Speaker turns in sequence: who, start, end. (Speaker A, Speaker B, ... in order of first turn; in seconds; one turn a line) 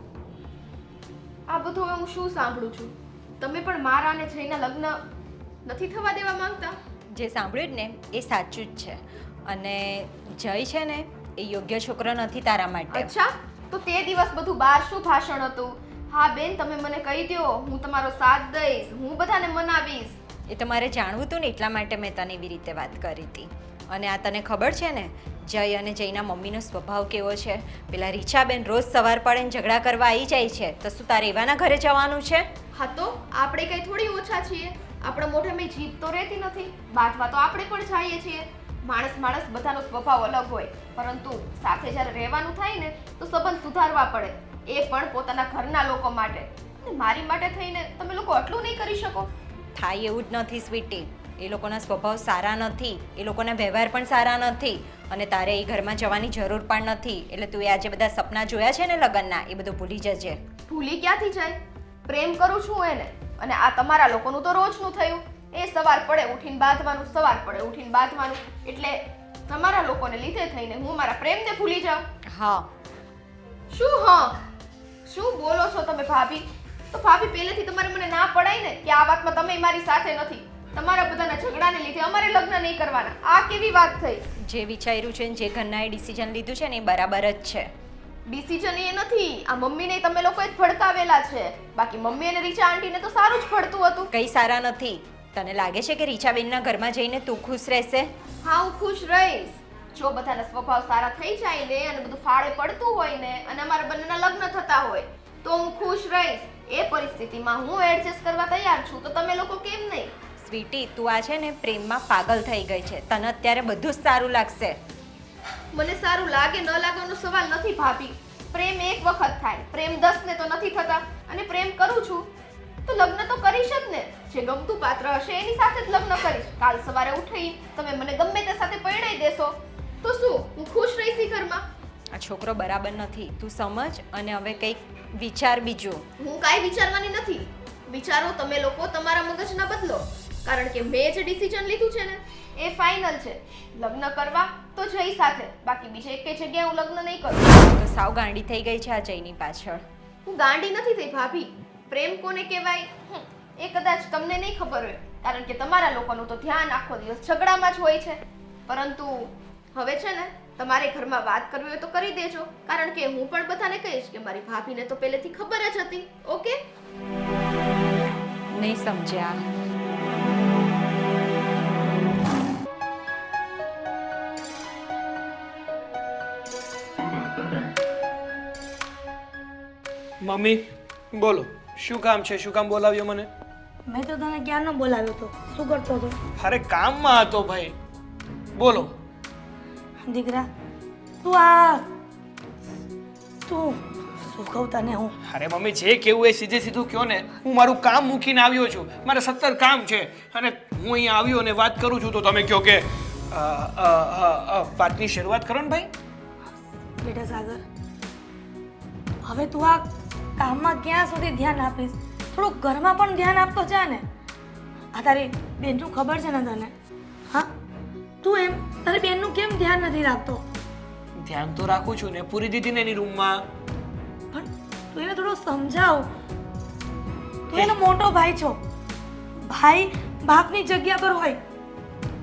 Speaker A: 1.5-5.0
Speaker A: 5.7-6.8
Speaker B: 7.1-13.1
Speaker A: 12.9-20.2
Speaker B: 20.5-32.5
Speaker A: 32.7-49.3
Speaker B: 49.8-60.4
Speaker A: 60.7-72.0
Speaker B: 72.3-72.7
Speaker A: 73.7-74.4
Speaker A: 75.0-84.2
Speaker B: 84.4-87.7
Speaker A: 88.3-94.1
Speaker B: 94.1-98.1
Speaker A: 98.4-110.1
Speaker B: 110.4-114.8
Speaker A: 115.7-122.3
Speaker A: 122.9-131.6
Speaker B: 132.1-136.0
Speaker A: 136.2-147.4
Speaker B: 147.5-149.8
Speaker A: 150.2-166.6
Speaker B: 168.5-169.4
Speaker C: 180.2-183.3
Speaker D: 183.9-186.2
Speaker C: 186.4-187.7
Speaker C: 188.5-188.9
Speaker D: 190.0-190.5
Speaker D: 191.2-191.8
Speaker D: 193.5-195.1
Speaker C: 195.2-205.9
Speaker D: 207.0-207.6
Speaker D: 209.2-209.8
Speaker D: 210.4-214.0
Speaker D: 214.9-216.7
Speaker D: 218.2-220.4
Speaker C: 221.2-223.5
Speaker D: 224.3-226.1
Speaker D: 227.5-228.6
Speaker D: 229.5-231.4